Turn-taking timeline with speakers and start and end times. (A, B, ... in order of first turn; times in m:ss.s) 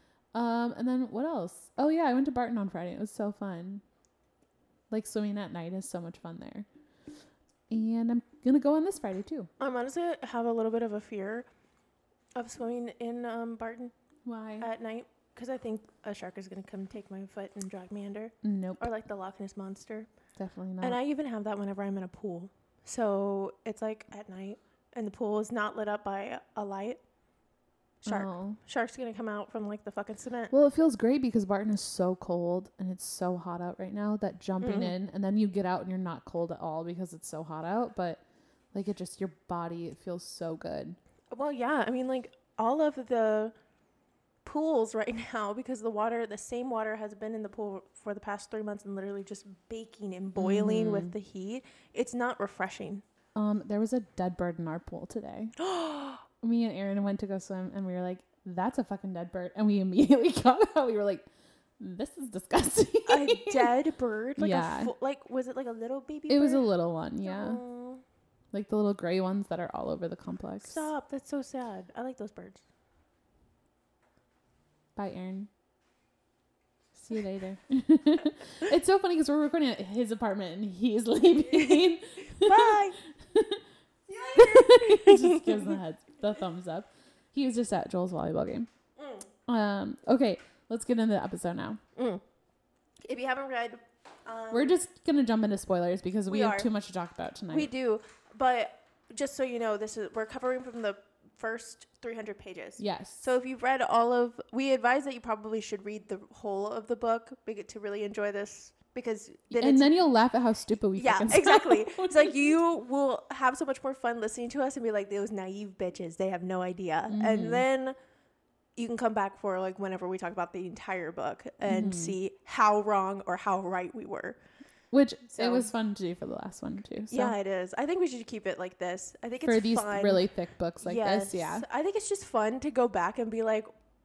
0:00.3-0:03.8 A
0:04.9-0:06.7 A
0:07.7-0:09.5 A
0:09.6-0:11.5 B
0:12.3-0:13.9 B
0:14.2-0:14.7 A
0:14.6-0:20.1 B
0:18.4-0:18.9 A
0:20.4-0:21.0 A
0:20.8-0:27.0 B
0:28.0-0:30.5 B
0:28.0-0:28.6 A
0:30.5-0:38.2 A
0:34.6-0:34.9 B
0:38.7-0:41.0 A
0:41.3-0:43.5 B
0:44.4-0:53.0 B
0:50.4-0:51.1 A
0:53.3-0:55.5 A
0:55.6-0:56.2 B
0:56.4-1:01.2 A
1:01.8-1:03.7 A
1:03.1-1:06.7 B
1:04.4-1:04.9 A
1:06.3-1:07.6 A
1:07.2-1:08.0 B
1:08.5-1:10.9 A
1:10.6-1:12.6 B
1:15.0-1:15.5 A
1:17.0-1:23.6 A
1:21.5-1:23.0 B
1:24.1-1:25.8 B
1:24.3-1:28.7 A
1:29.0-1:29.2 B
1:29.5-1:31.8 A
1:32.0-1:32.2 B
1:33.0-1:34.7 B
1:34.5-1:37.7 A
1:36.3-1:36.7 B
1:37.5-1:49.9 B
1:42.8-1:43.2 A
1:49.5-1:52.5 A
1:51.0-1:58.0 B
1:57.1-1:57.6 A
1:58.8-2:04.4 B
2:01.6-2:02.2 A
2:04.9-2:07.4 A
2:05.3-2:05.7 B
2:07.1-2:10.2 B
2:09.4-2:11.6 A
2:10.8-2:13.7 B